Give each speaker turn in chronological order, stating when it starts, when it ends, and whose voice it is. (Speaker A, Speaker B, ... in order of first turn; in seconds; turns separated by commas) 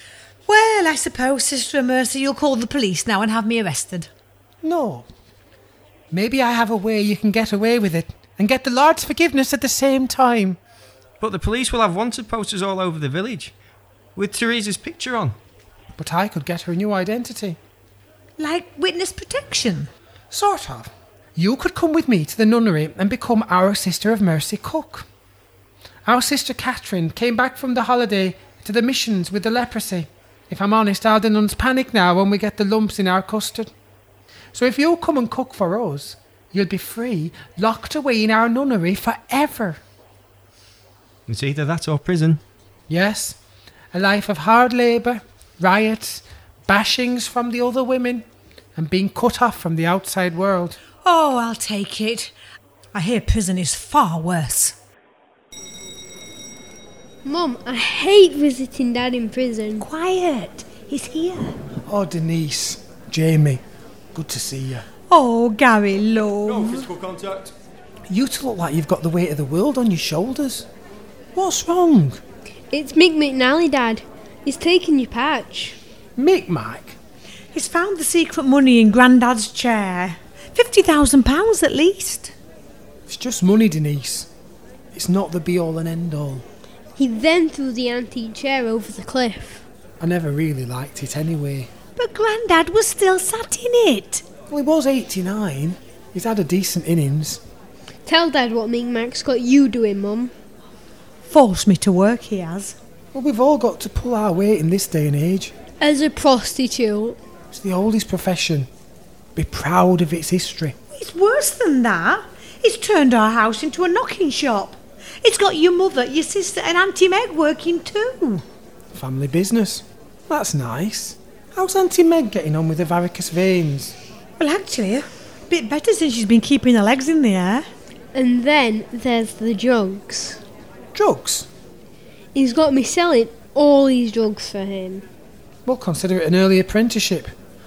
Speaker A: 0.5-4.1, Speaker B: 4.6-5.1, Speaker B: 6.1-10.6, Speaker C: 11.2-13.5, Speaker C: 14.2-15.4, Speaker B: 16.0-17.6, Speaker A: 18.4-19.9, Speaker B: 20.3-25.0, Speaker B: 26.1-33.7, Speaker B: 34.5-39.8, Speaker C: 41.3-42.4, Speaker B: 42.9-43.4, Speaker B: 43.9-48.2, Speaker B: 48.8-50.8, Speaker A: 51.0-52.3, Speaker A: 52.9-54.8, Speaker D: 57.2-59.9, Speaker A: 59.8-61.6, Speaker B: 61.9-63.6, Speaker B: 64.1-64.8, Speaker A: 65.1-66.9, Speaker C: 66.5-67.5, Speaker B: 68.1-70.7, Speaker B: 71.3-72.2, Speaker D: 72.7-75.8, Speaker B: 76.2-77.0, Speaker A: 77.5-82.3, Speaker B: 83.1-84.3, Speaker B: 84.9-86.4, Speaker D: 87.0-89.6, Speaker B: 90.0-91.7, Speaker A: 92.0-94.2, Speaker B: 94.5-97.4, Speaker D: 98.0-100.3, Speaker A: 101.2-102.7, Speaker B: 103.1-105.5, Speaker D: 105.8-107.2, Speaker B: 107.5-108.7, Speaker B: 109.3-110.8, Speaker A: 110.9-118.4, Speaker B: 118.9-123.9, Speaker A: 124.4-127.6, Speaker D: 128.1-130.4, Speaker B: 130.9-131.5, Speaker D: 132.3-135.0, Speaker B: 135.6-137.3